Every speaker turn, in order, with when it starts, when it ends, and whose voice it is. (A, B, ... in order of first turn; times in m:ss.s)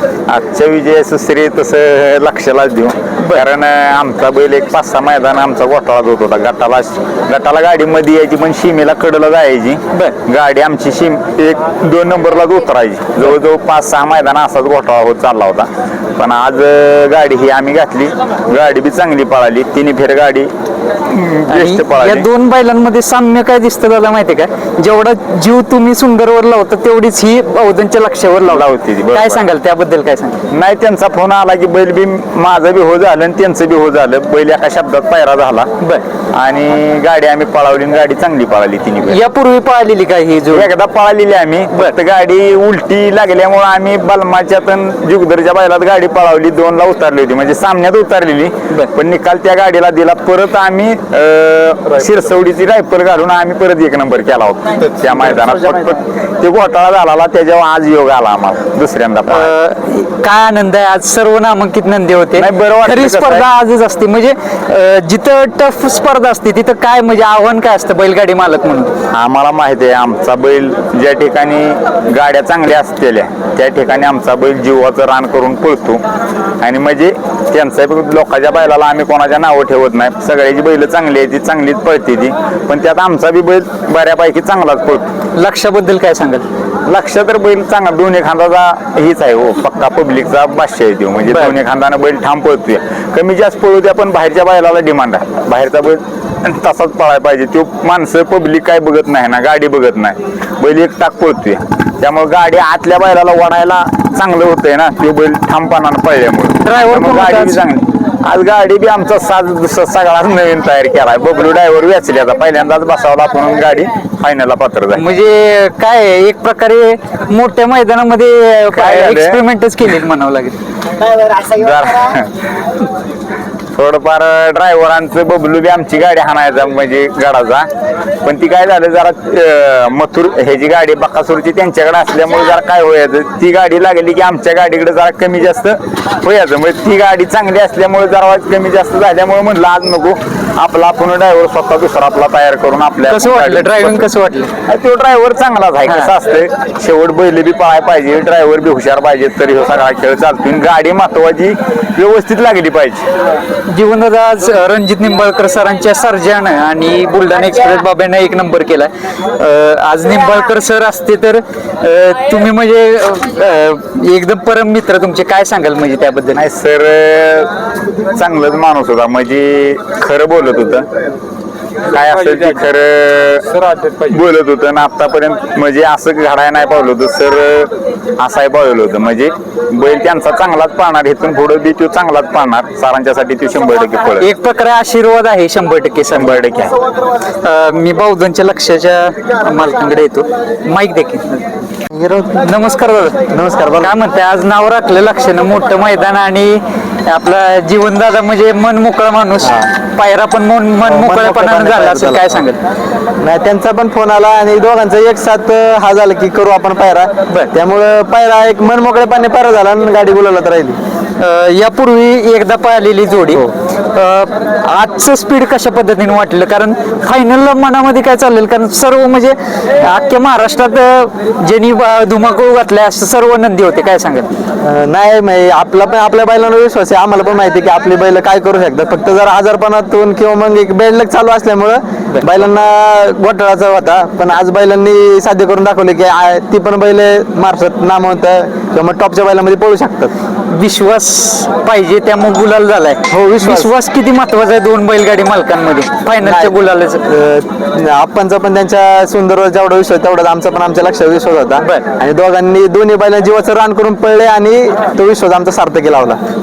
0:00.3-0:20.5 A
0:21.1-0:22.3 A
0:21.5-0:30.4 B
0:28.5-0:29.4 A
0:30.5-0:35.7 A
0:36.3-0:39.2 A
0:39.1-0:40.7 B
0:40.5-0:59.5 A
0:59.3-1:08.9 B
1:02.4-1:03.5 A
1:09.1-1:16.0 A
1:16.6-1:25.0 A
1:25.4-1:26.4 B
1:26.8-1:55.0 A
1:31.3-1:31.5 B
1:46.6-1:47.6 B
1:54.9-2:00.6 B
1:58.7-1:59.4 A
2:01.1-2:02.3 A
2:03.8-2:07.7 A
2:08.2-2:24.1 A
2:23.1-2:24.5 B
2:24.7-2:33.0 A
2:33.7-2:46.5 B
2:46.4-2:47.5 A
2:48.1-2:50.9 A
2:51.8-3:04.3 A
3:04.2-3:06.4 B
3:06.1-3:06.8 A
3:07.4-3:11.4 B
3:11.9-3:12.4 C
3:12.4-3:13.2 B
3:13.3-3:13.9 C
3:13.8-3:22.6 B
3:19.4-3:19.7 C
3:20.8-3:22.3 C
3:23.2-3:30.8 C
3:31.2-3:44.3 B
3:44.6-4:00.1 C
4:00.5-4:07.0 B
4:03.1-4:03.7 C
4:06.2-4:16.2 C